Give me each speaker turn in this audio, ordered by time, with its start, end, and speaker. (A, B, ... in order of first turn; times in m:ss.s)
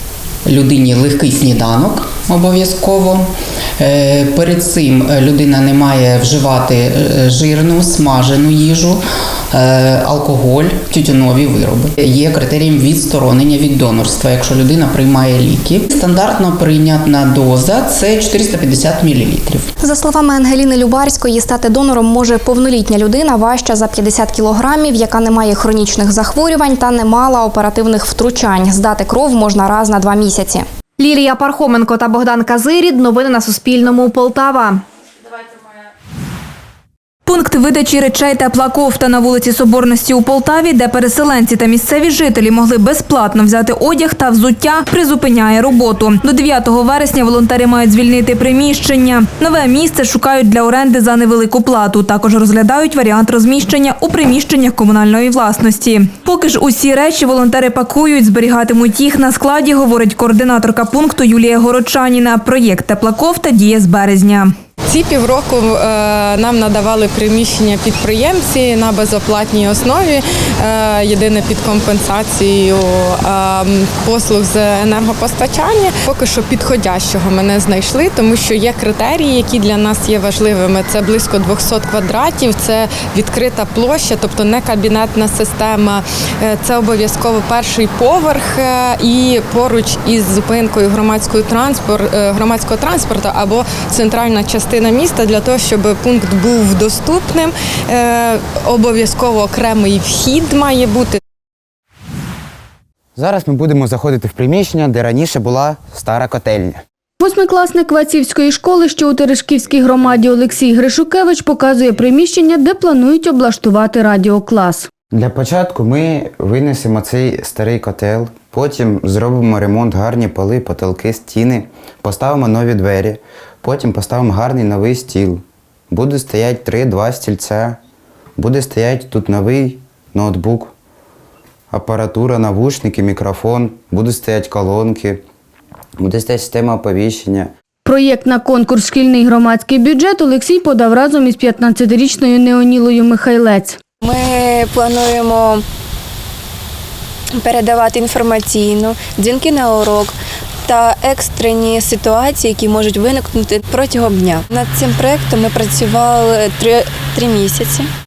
0:00.5-0:19.7 A
0:19.9-0:30.6 B
0:31.0-0:34.8 C
0:37.3-1:04.5 D
1:04.9-1:41.2 E
1:43.2-1:46.8 F
1:47.2-1:54.9 G
1:55.1-2:07.8 F
2:08.4-2:10.7 F
2:11.7-2:15.2 F
2:16.0-2:17.5 F
2:17.8-2:23.8 G
2:24.0-2:25.6 H
2:27.4-2:30.2 H
2:30.7-2:37.9 H